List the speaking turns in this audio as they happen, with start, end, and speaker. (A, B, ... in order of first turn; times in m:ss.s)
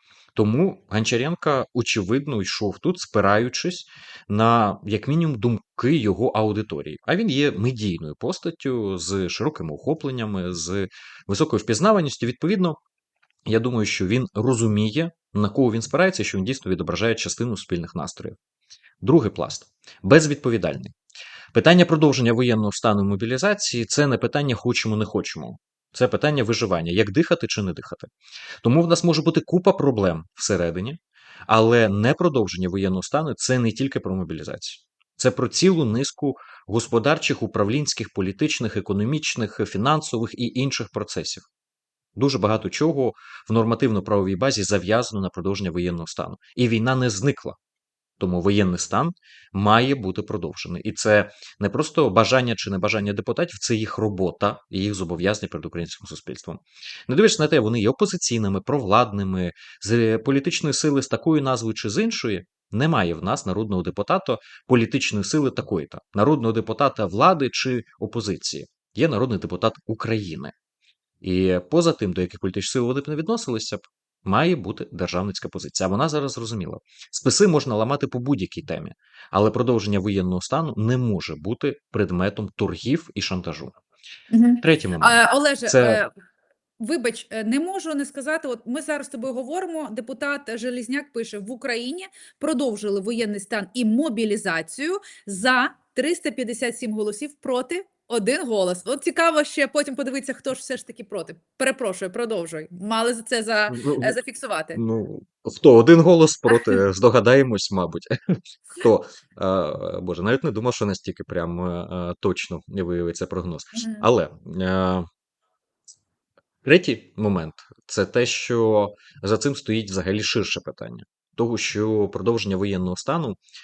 0:00.3-0:12.8 A
0:13.4-0:18.4 A
0:19.0-0:20.9 A
0:21.5-0:28.1 A
0:28.6-0:41.5 A
0:42.2-0:47.6 A
0:48.2-1:10.5 A
1:11.2-1:23.7 A
1:24.3-1:26.1 B
1:24.6-1:26.0 A
1:26.8-1:44.8 B
1:43.7-1:44.2 A
1:44.8-1:55.1 A
1:53.8-1:54.0 B
1:56.6-2:03.4 A